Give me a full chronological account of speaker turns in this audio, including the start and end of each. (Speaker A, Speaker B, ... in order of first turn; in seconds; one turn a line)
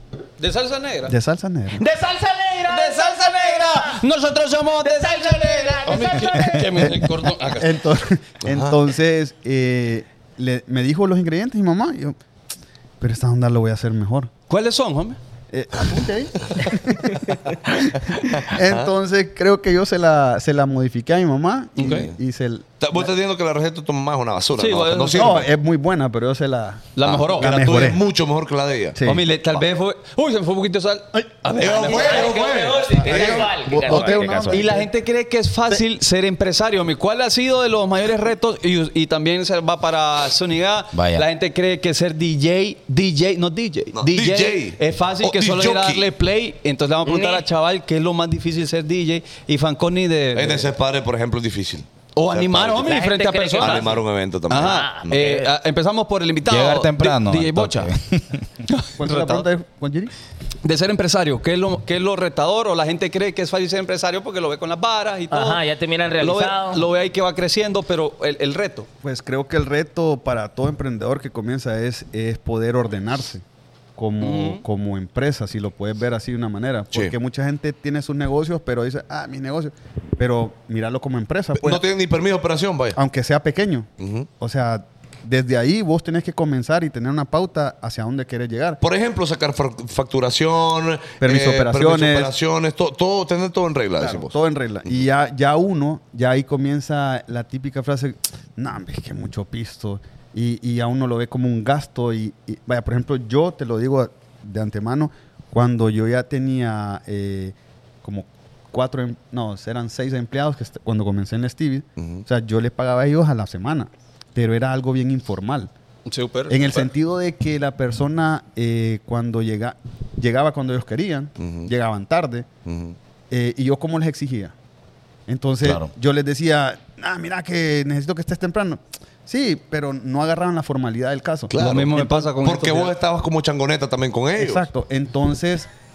Speaker A: 0.4-1.1
Speaker B: 1.1-1.8
Speaker C: 1.8-4.0
Speaker A: 2.7-7.8
Speaker C: 4.8-6.9
Speaker B: 6.3-12.2
Speaker D: 8.4-8.8
Speaker B: 13.0-14.3
Speaker A: 14.5-15.2
Speaker B: 15.5-23.0
Speaker D: 18.2-18.9
Speaker A: 21.8-22.1
Speaker D: 21.8-22.1
Speaker D: 22.8-25.5
Speaker A: 24.6-25.4
Speaker B: 25.1-28.0
Speaker A: 26.9-27.8
Speaker D: 27.1-29.0
Speaker B: 28.9-29.2
Speaker A: 29.0-32.4
Speaker D: 31.6-33.5
Speaker C: 31.8-34.7
Speaker B: 33.0-34.9
Speaker A: 33.9-50.7
Speaker E: 40.9-41.2
Speaker D: 43.9-46.1
Speaker C: 47.0-47.5
Speaker D: 50.3-53.0
Speaker A: 52.1-53.9
Speaker C: 52.8-54.0
Speaker D: 53.6-55.2
Speaker A: 54.5-57.9
Speaker C: 54.5-55.5
Speaker E: 56.5-58.4
Speaker A: 58.7-59.5
Speaker B: 59.0-60.1
Speaker A: 60.6-65.6
Speaker C: 65.3-66.8
Speaker A: 66.2-68.9
Speaker B: 69.0-73.4
Speaker B: 74.0-81.8
Speaker A: 74.2-74.6
Speaker D: 81.6-83.0
Speaker B: 82.9-83.9
Speaker D: 84.0-84.3
Speaker B: 84.4-88.8
Speaker D: 88.8-94.3
Speaker B: 91.2-92.3
Speaker B: 94.0-115.7
Speaker D: 112.0-112.2
Speaker A: 116.1-116.9
Speaker B: 116.5-122.5
Speaker D: 121.4-121.7
Speaker D: 122.7-123.0
Speaker B: 123.3-124.5
Speaker B: 125.3-132.3
Speaker E: 125.6-125.9
Speaker D: 131.5-134.7
Speaker A: 131.6-132.9
Speaker B: 134.3-135.7